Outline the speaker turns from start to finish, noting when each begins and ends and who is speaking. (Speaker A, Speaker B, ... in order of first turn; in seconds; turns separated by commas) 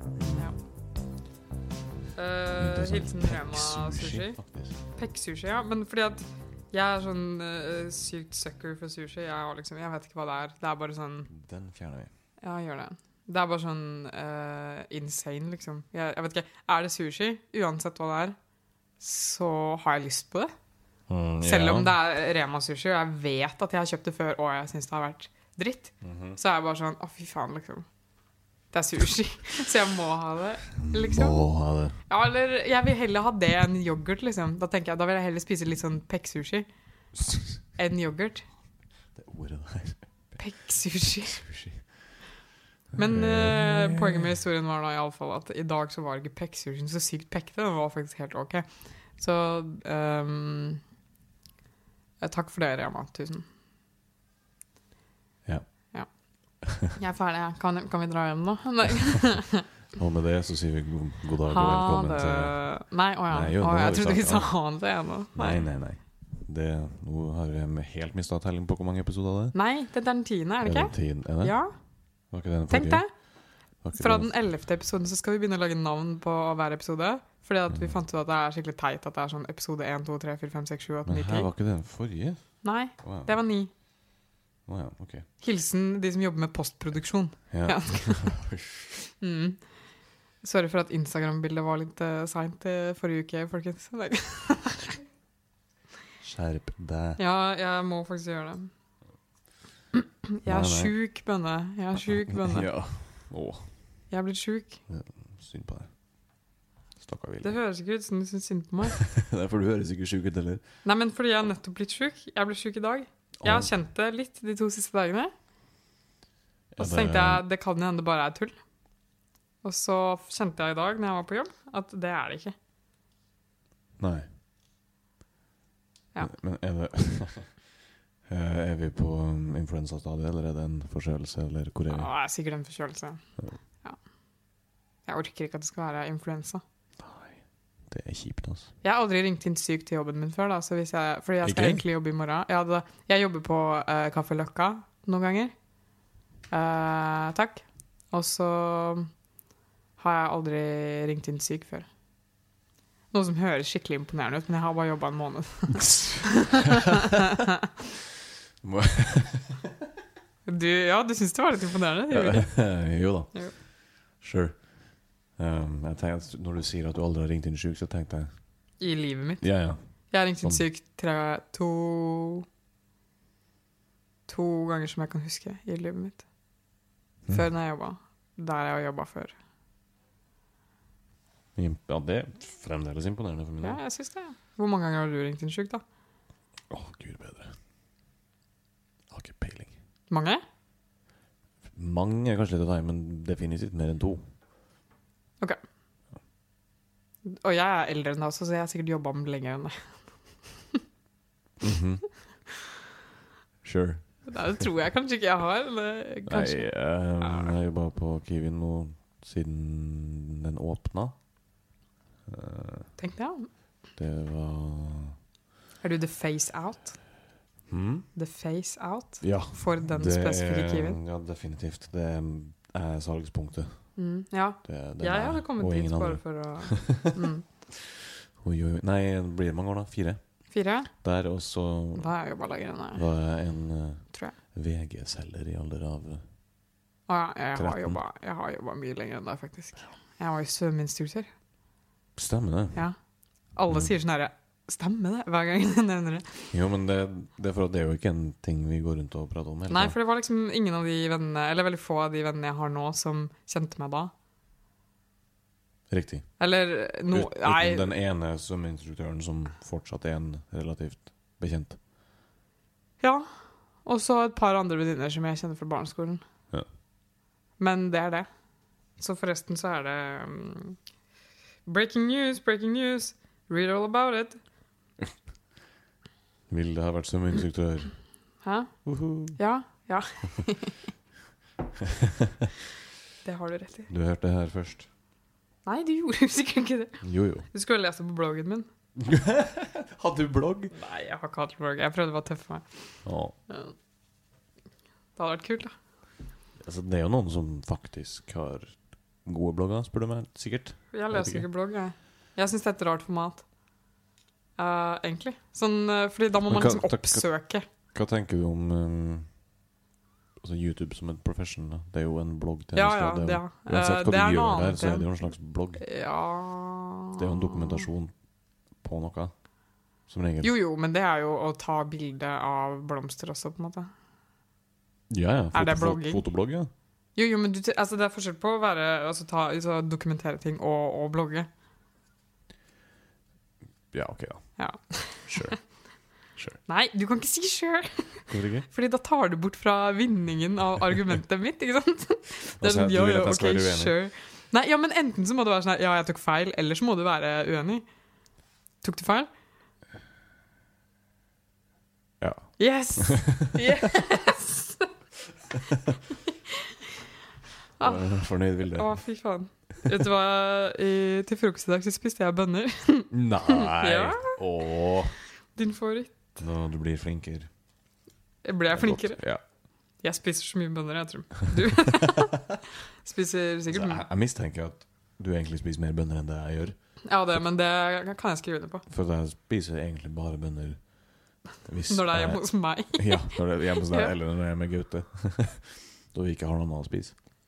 Speaker A: 0.1-0.5, Speaker B: 0.3-0.6, Speaker B: 2.1-4.4, Speaker A: 2.6-4.8, Speaker B: 4.9-11.3, Speaker A: 11.3-12.1, Speaker B: 12.4-18.4, Speaker B: 19.0-20.5, Speaker A: 21.1-21.9, Speaker B: 21.4-27.9, Speaker A: 26.0-26.4, Speaker B: 28.7-31.4, Speaker A: 30.8-32.0, Speaker B: 32.1-36.7, Speaker A: 37.2-37.6, Speaker B: 37.7-38.5, Speaker A: 39.1-40.4, Speaker B: 40.4-41.5, Speaker A: 41.2-42.0, Speaker A: 42.9-44.4, Speaker B: 42.9-50.8, Speaker B: 52.2-53.5, Speaker A: 55.5-55.9, Speaker B: 55.9-59.7, Speaker A: 60.0-62.7, Speaker B: 61.5-65.7, Speaker A: 63.3-64.6, Speaker A: 65.3-69.5, Speaker B: 69.5-71.8, Speaker A: 70.6-71.6, Speaker A: 72.3-73.1, Speaker B: 72.7-73.1, Speaker A: 73.8-74.3, Speaker B: 73.9-81.5, Speaker A: 77.7-78.0, Speaker A: 81.1-83.4, Speaker B: 82.6-83.7, Speaker A: 84.7-85.3, Speaker B: 85.4-88.3, Speaker A: 87.5-89.0, Speaker B: 89.2-89.6, Speaker B: 90.4-95.0, Speaker A: 96.2-97.2, Speaker B: 97.2-98.7, Speaker B: 99.9-102.7, Speaker A: 100.5-100.9, Speaker A: 102.3-103.7, Speaker B: 104.1-104.8, Speaker A: 104.9-105.9, Speaker A: 107.0-107.5, Speaker B: 107.4-109.0, Speaker A: 109.0-110.7, Speaker B: 110.8-115.3, Speaker A: 113.4-113.7, Speaker A: 116.7-117.4, Speaker B: 116.8-118.6, Speaker B: 119.6-122.5, Speaker A: 124.0-124.3, Speaker A: 126.2-127.6, Speaker A: 128.3-132.1, Speaker B: 131.9-134.0, Speaker B: 135.1-136.6, Speaker A: 137.0-138.7, Speaker B: 138.8-145.5, Speaker A: 141.4-141.8, Speaker B: 146.5-149.1, Speaker B: 150.0-151.9, Speaker B: 153.1-157.5, Speaker A: 155.8-156.3, Speaker A: 158.6-159.7, Speaker B: 160.4-162.8, Speaker A: 162.1-164.8, Speaker A: 165.3-168.3, Speaker B: 168.8-169.5, Speaker A: 169.4-169.8, Speaker B: 170.1-172.4, Speaker B: 174.3-176.2, Speaker B: 177.3-179.3, Speaker A: 181.6-183.8, Speaker B: 183.6-185.8, Speaker A: 186.7-187.6, Speaker A: 189.1-189.8, Speaker B: 190.1-190.4, Speaker A: 191.7-194.2, Speaker B: 197.2-200.1, Speaker A: 201.6-202.0, Speaker A: 203.6-204.7, Speaker B: 204.3-207.5, Speaker A: 206.2-211.2, Speaker A: 212.3-212.9, Speaker B: 213.0-213.5, Speaker A: 213.9-215.1, Speaker B: 215.8-217.0, Speaker A: 217.7-218.1, Speaker B: 218.1-221.0, Speaker A: 219.2-224.0, Speaker B: 223.9-227.4, Speaker A: 224.6-227.2, Speaker A: 228.4-232.1, Speaker B: 230.5-230.9, Speaker B: 231.9-233.0, Speaker A: 232.9-236.2, Speaker B: 234.1-234.3, Speaker B: 237.1-241.3, Speaker A: 237.5-238.0, Speaker A: 242.2-242.8, Speaker B: 243.5-246.5, Speaker A: 246.5-250.0, Speaker B: 249.7-254.1, Speaker A: 255.9-256.4, Speaker B: 256.4-257.9, Speaker A: 257.1-261.8, Speaker B: 263.0-263.3, Speaker B: 263.8-266.2, Speaker B: 267.6-268.3, Speaker B: 269.0-270.8, Speaker B: 271.7-274.4, Speaker A: 276.5-278.0, Speaker B: 278.4-280.9, Speaker A: 278.9-279.4, Speaker B: 283.2-283.9, Speaker A: 283.9-284.9, Speaker B: 285.6-288.7, Speaker A: 287.0-287.5, Speaker A: 289.0-290.7, Speaker B: 290.7-293.8, Speaker A: 293.1-293.4, Speaker B: 295.2-295.7, Speaker A: 296.6-301.5, Speaker B: 300.9-303.5, Speaker B: 304.6-307.7, Speaker A: 306.4-309.4, Speaker A: 310.4-315.9, Speaker B: 312.7-317.9, Speaker A: 317.2-318.1, Speaker A: 318.8-319.3, Speaker A: 320.1-320.5, Speaker B: 320.4-323.9, Speaker A: 325.1-326.7, Speaker B: 325.5-326.2, Speaker B: 327.1-331.5, Speaker A: 333.9-336.6, Speaker B: 334.6-335.6, Speaker B: 336.7-347.9, Speaker A: 338.3-338.7, Speaker A: 342.6-343.9, Speaker B: 348.8-349.3, Speaker A: 352.2-353.3, Speaker B: 352.6-354.9, Speaker B: 357.8-364.4, Speaker A: 357.8-359.0, Speaker A: 363.1-365.2, Speaker B: 365.4-366.4, Speaker A: 366.4-367.5, Speaker B: 368.4-369.2, Speaker A: 368.7-369.4, Speaker B: 370.0-372.4, Speaker B: 373.0-374.1, Speaker A: 373.7-377.4, Speaker B: 377.1-378.9, Speaker A: 378.9-387.1, Speaker B: 381.9-384.1